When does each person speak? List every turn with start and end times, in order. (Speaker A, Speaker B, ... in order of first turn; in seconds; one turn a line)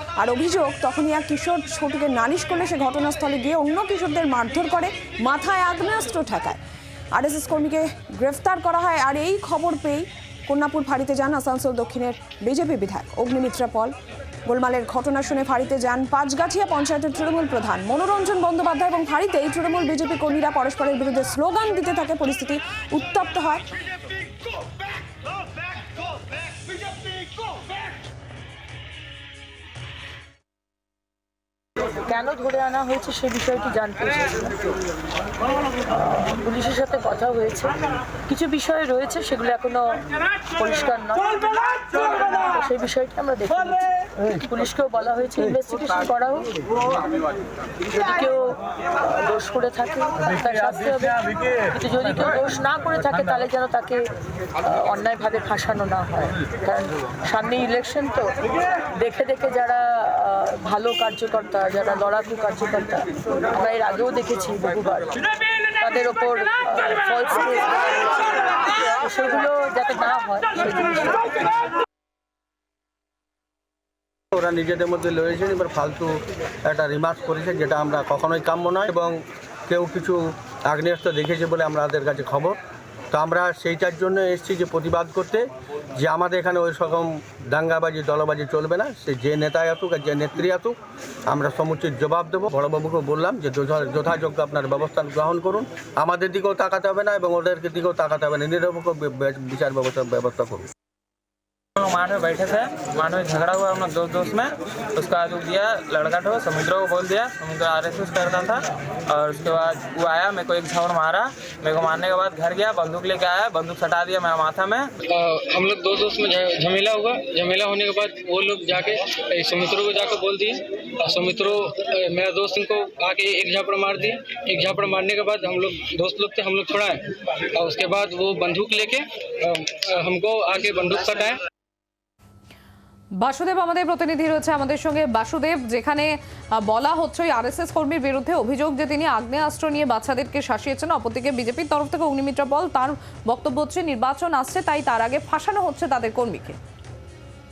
Speaker A: 0.2-6.6
Speaker A: 7.1-13.9
Speaker A: 14.5-23.7
Speaker B: 32.1-34.8
Speaker B: 35.9-46.8
Speaker B: 47.9-54.1
Speaker B: 54.6-65.2
Speaker B: 65.8-71.5
Speaker C: 74.3-82.6
Speaker C: 83.1-85.5
Speaker C: 86.0-90.8
Speaker C: 91.3-100.7
Speaker D: 101.8-114.9
Speaker E: 115.1-127.0
Speaker E: 127.6-131.3
Speaker F: 133.2-146.6